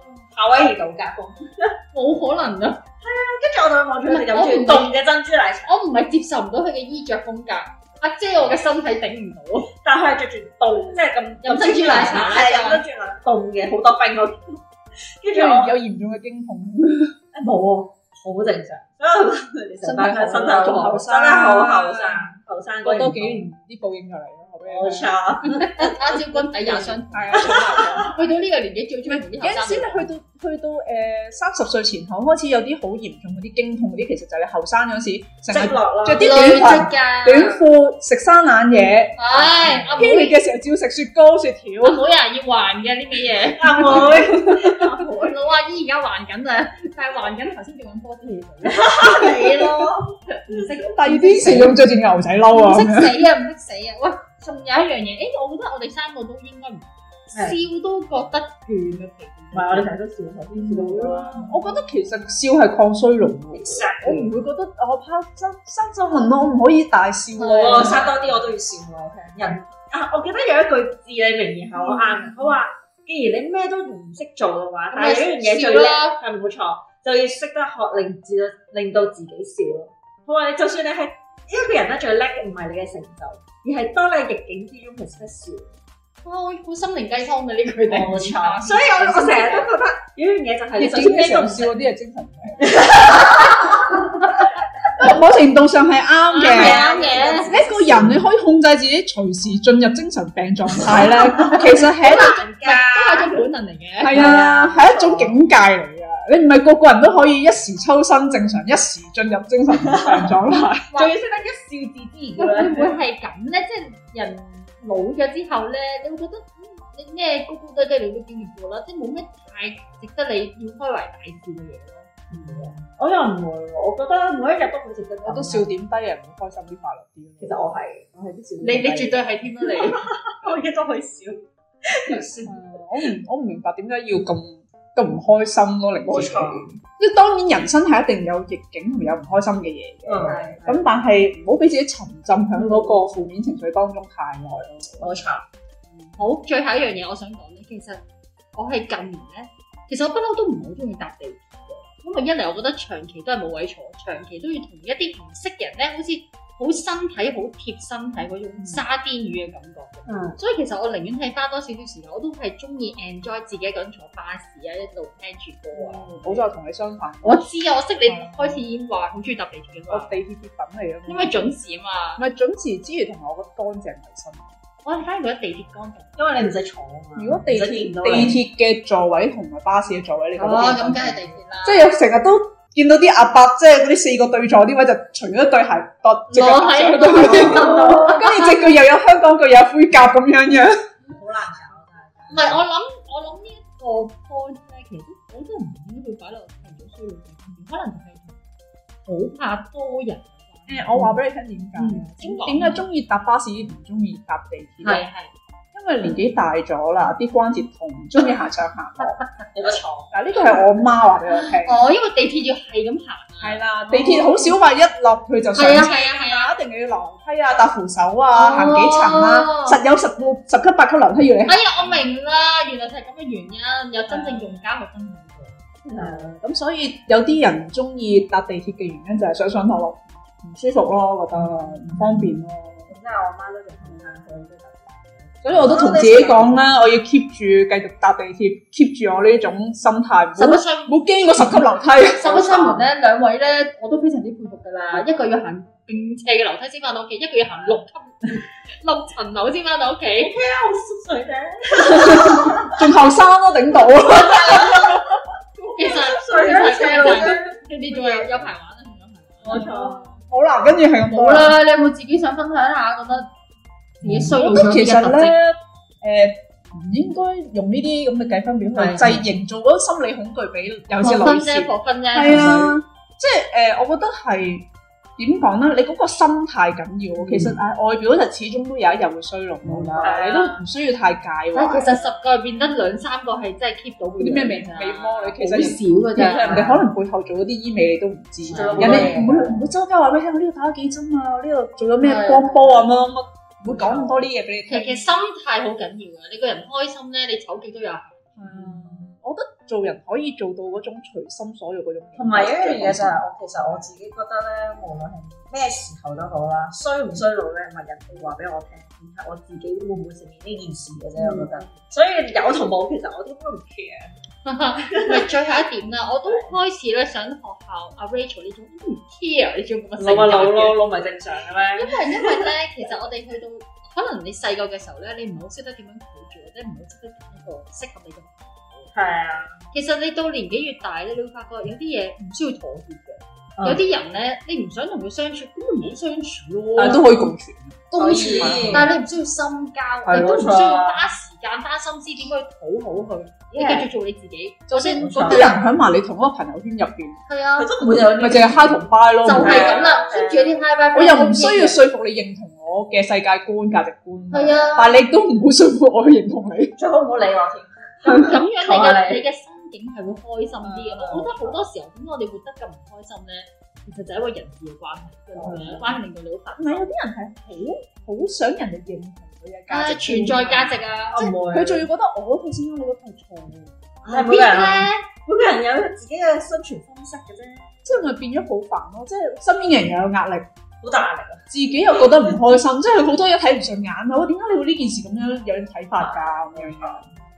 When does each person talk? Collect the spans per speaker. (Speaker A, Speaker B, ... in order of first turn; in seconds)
Speaker A: 0.3-1.7, 3.0-5.8, 9.8-14.6, 15.2-15.8, 17.3-23.5, 24.6-28.1, 35.5-36.8, 39.4-40.0, 43.5-45.1, 48.7-50.7, 57.3-57.6, 59.5-61.6, 63.5-64.3, 67.6-85.7, 87.9-91.7, 92.6-94.1, 96.4-98.2, 101.0-103.4, 104.1-105.3, 109.7-110.3, 110.9-113.0, 122.3-125.7, 127.4-132.8, 136.1-136.7, 140.1-140.8, 145.0-145.4, 160.1-160.4, 165.8-166.3, 176.2-178.4, 187.2-188.2, 191.1-192.6, 209.5-210.1, 225.9-226.4, 231.8-232.2, 232.9-236.7, 242.4-242.8, 250.2-252.8, 254.1-255.1, 255.8-258.4, 259.4-260.0, 268.8-269.1, 272.3-272.6, 277.2-277.6, 279.6-280.6, 286.2-286.9, 288.5-289.6, 293.7-294.2, 298.5-299.1, 302.2-314.2, 314.8-315.4, 316.2-316.5, 320.0-322.5, 328.9-329.6, 333.6-333.8, 337.9-338.9, 340.1-341.1, 343.5-343.9, 345.0-345.6, 347.6-350.6, 356.8-359.2, 365.4-365.9, 371.1-371.9, 374.0-377.8, 380.8-381.5, 386.0-387.1
Speaker B: 1.9-2.8, 4.1-5.0, 5.7-9.7, 11.4-12.8, 19.8-21.0, 25.4-30.1, 36.2-37.6, 39.2-40.4, 41.8-49.7, 50.3-51.8, 52.5-59.9, 67.4-68.1, 74.9-76.2, 86.2-89.7, 96.3-97.8, 101.5-104.2, 112.4-122.1, 128.6-130.1, 146.2-166.4, 167.2-170.2, 171.1-172.2, 174.8-176.5, 180.4-181.8, 186.3-188.6, 192.3-198.4, 199.1-201.2, 201.8-202.8, 204.8-205.3, 209.0-209.3, 211.3-214.5, 215.6-216.6, 218.3-219.8, 221.5-225.6, 235.7-236.4, 240.4-250.3, 254.1-254.8, 255.6-260.0, 261.0-263.3, 264.0-265.4, 268.8-269.2, 271.0-272.8, 281.5-286.8, 288.5-289.1, 292.0-292.9, 294.7-298.3, 311.2-311.7, 314.4-320.8, 321.8-328.9, 329.7-337.1, 337.9-345.6, 347.3-347.8, 349.2-351.8, 354.3-355.0, 358.0-366.9, 369.7-371.4, 374.1-375.1
Speaker C: 15.3-17.1, 20.0-22.3, 22.8-25.2, 26.7-28.2, 29.1-42.0, 44.0-44.8, 50.9-53.1, 60.5-68.3, 90.8-93.2, 95.0-96.8, 97.5-102.4, 104.0-110.9, 125.2-127.6, 132.4-145.2, 158.6-158.8, 166.1-167.5, 168.1-168.6, 169.9-171.5, 172.2-174.6, 177.2-190.8, 200.7-205.1, 205.7-209.2, 210.1-211.8, 213.4-222.0, 225.9-232.9, 235.4-242.7, 251.9-255.0, 259.5-261.6, 264.0-282.1, 284.2-295.1, 298.4-303.2, 336.8-338.9, 344.7-347.2, 348.1-349.8, 350.9-356.8, 360.6-361.5, 365.4-365.8, 366.6-370.8, 371.4-373.8, 377.9-380.5, 381.5-387.0